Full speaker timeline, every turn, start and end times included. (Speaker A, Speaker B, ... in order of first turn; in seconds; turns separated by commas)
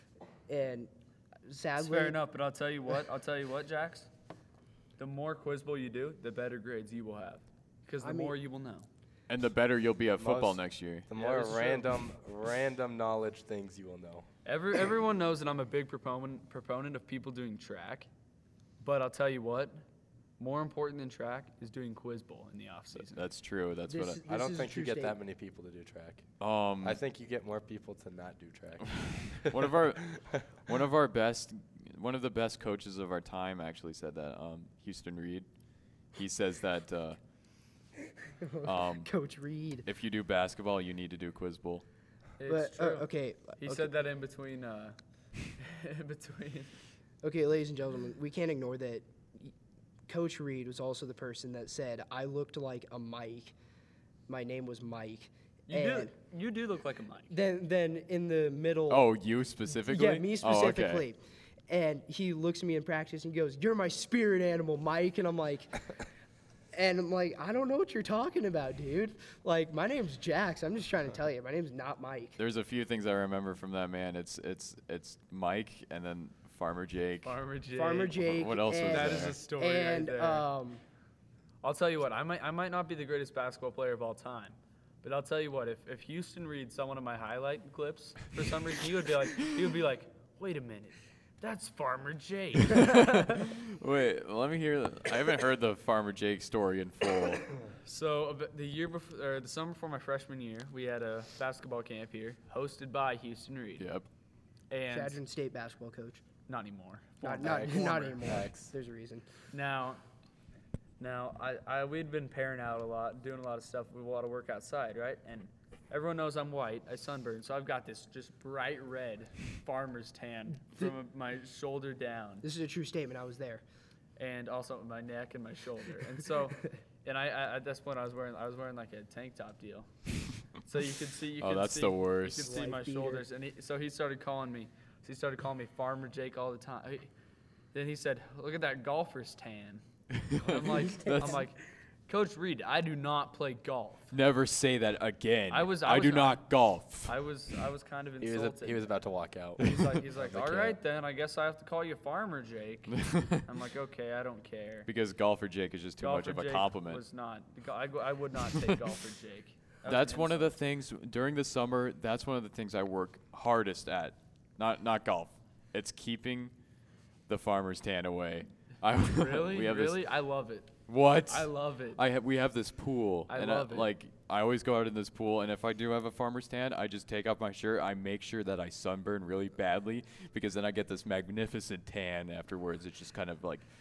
Speaker A: 0.5-0.9, Speaker A: 1.5-2.2, Speaker B: 1.8-4.1, Speaker B: 5.0-8.9, Speaker A: 8.0-8.3, Speaker C: 9.3-11.1, Speaker D: 10.2-14.3, Speaker B: 11.1-11.9, Speaker B: 14.4-18.1, Speaker B: 18.8-19.8, Speaker B: 20.4-23.3, Speaker C: 23.1-24.2, Speaker A: 23.9-25.2, Speaker D: 24.3-26.3, Speaker C: 26.4-27.0, Speaker D: 26.8-29.8, Speaker C: 29.0-35.5, Speaker C: 36.1-37.2, Speaker A: 38.3-39.9, Speaker C: 38.6-39.1, Speaker C: 39.9-41.8, Speaker B: 42.4-45.0, Speaker A: 42.5-43.9, Speaker B: 45.6-46.7, Speaker A: 47.2-49.5, Speaker A: 50.1-53.5, Speaker A: 54.3-56.1, Speaker B: 55.7-57.3, Speaker A: 57.3-59.1, Speaker C: 58.9-61.1, Speaker A: 59.9-65.8, Speaker A: 66.7-72.4, Speaker C: 72.4-77.4, Speaker B: 77.2-78.2, Speaker A: 77.7-80.8, Speaker C: 78.2-79.4, Speaker B: 78.9-80.5, Speaker B: 81.6-93.4, Speaker C: 92.7-97.5, Speaker B: 97.8-103.8, Speaker C: 103.8-104.1, Speaker B: 104.7-105.2, Speaker A: 104.9-106.2, Speaker B: 106.5-108.2, Speaker A: 107.2-109.3, Speaker D: 107.4-108.7, Speaker B: 109.5-110.0, Speaker B: 111.0-122.5, Speaker A: 122.4-123.6, Speaker B: 124.2-129.9, Speaker B: 130.6-137.1, Speaker C: 131.4-132.5, Speaker A: 132.4-133.2, Speaker B: 137.7-139.8, Speaker C: 140.1-141.4, Speaker B: 140.4-141.6, Speaker A: 140.4-141.5, Speaker B: 142.1-144.1, Speaker C: 144.1-147.1, Speaker B: 145.5-146.4, Speaker B: 147.1-148.9, Speaker D: 148.2-150.8, Speaker B: 149.6-154.9, Speaker C: 152.9-153.5, Speaker C: 154.9-157.0, Speaker B: 156.0-160.6, Speaker C: 159.8-166.5, Speaker C: 167.3-170.0, Speaker B: 169.1-170.7, Speaker C: 170.9-183.7, Speaker B: 171.3-172.0, Speaker B: 173.3-173.9